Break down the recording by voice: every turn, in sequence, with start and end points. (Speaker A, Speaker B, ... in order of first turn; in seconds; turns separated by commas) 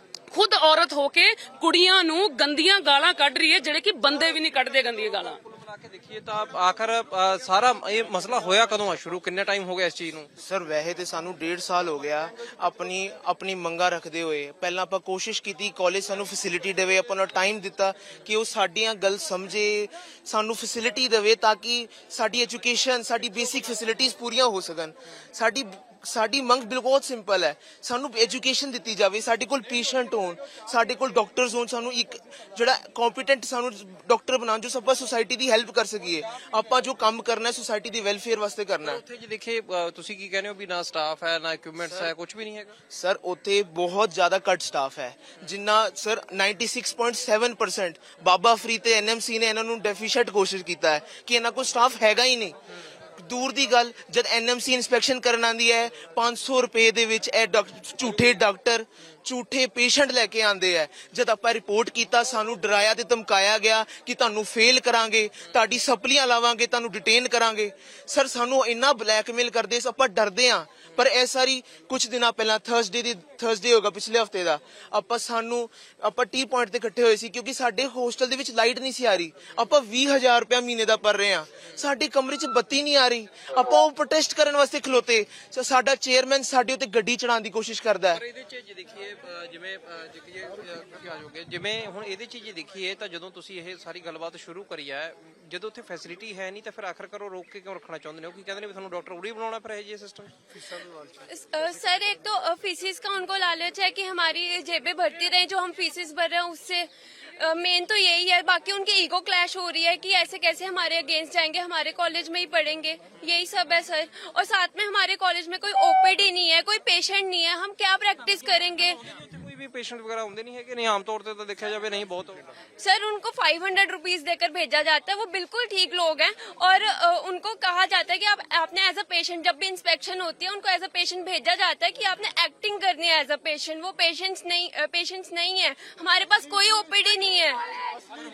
Speaker A: 0.3-5.4, Speaker B: 5.4-10.3, Speaker C: 10.4-39.0, Speaker B: 39.0-42.7, Speaker C: 42.9-52.5, Speaker C: 53.2-88.2, Speaker B: 88.2-100.3, Speaker D: 101.3-119.0, Speaker B: 118.6-122.4, Speaker D: 122.8-137.6